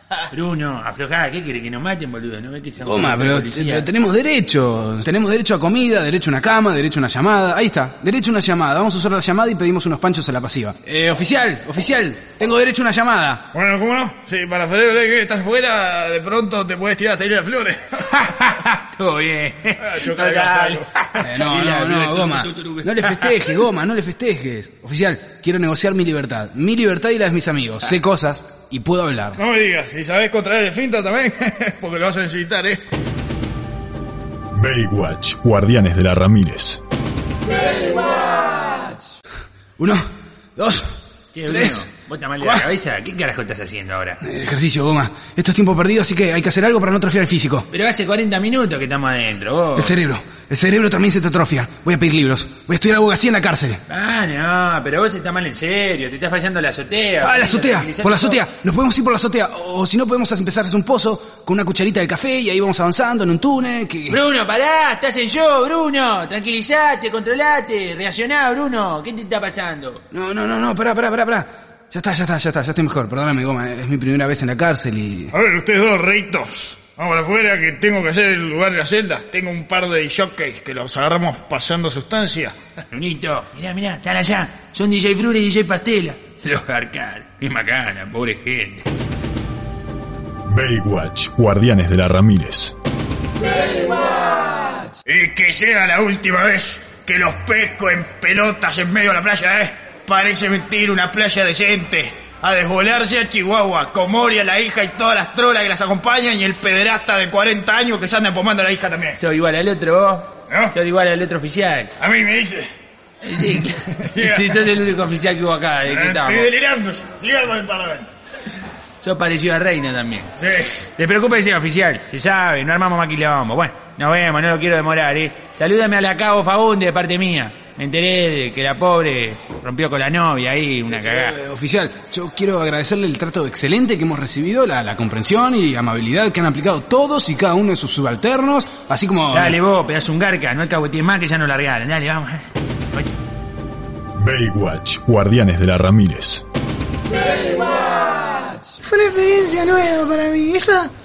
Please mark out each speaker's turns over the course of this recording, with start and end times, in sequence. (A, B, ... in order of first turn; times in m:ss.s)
0:00.3-0:03.9 A
0:02.8-0:13.5 B
0:13.5-0:17.8 C
0:18.1-0:23.6 A
0:19.9-0:20.8 C
0:21.2-0:29.4 B
0:29.4-0:32.8 C
0:34.5-0:36.8 D
0:40.6-0:40.9 B
0:41.3-0:44.2 A
0:41.5-0:41.8 B
0:42.4-0:42.7 B
0:44.2-0:47.7 B
0:47.7-0:50.0 A
0:49.8-0:53.8 B
0:53.9-0:58.4 A
0:57.2-1:04.2 B
1:04.1-1:10.0 A
1:10.1-1:15.3 B
1:15.3-1:22.5 C
1:22.9-1:28.8 A
1:30.5-1:32.7 D
1:35.0-1:49.2 C
1:49.2-1:51.9 A
1:50.5-1:50.7 C
1:52.0-1:52.7 C
1:53.2-1:56.5 A
1:54.0-1:54.5 C
1:55.9-1:58.1 C
1:59.0-2:00.3 A
2:00.4-2:00.7 C
2:00.8-2:11.4 A
2:10.9-2:19.6 B
2:19.3-2:23.1 A
2:24.2-2:26.4 D
2:28.8-2:30.9 E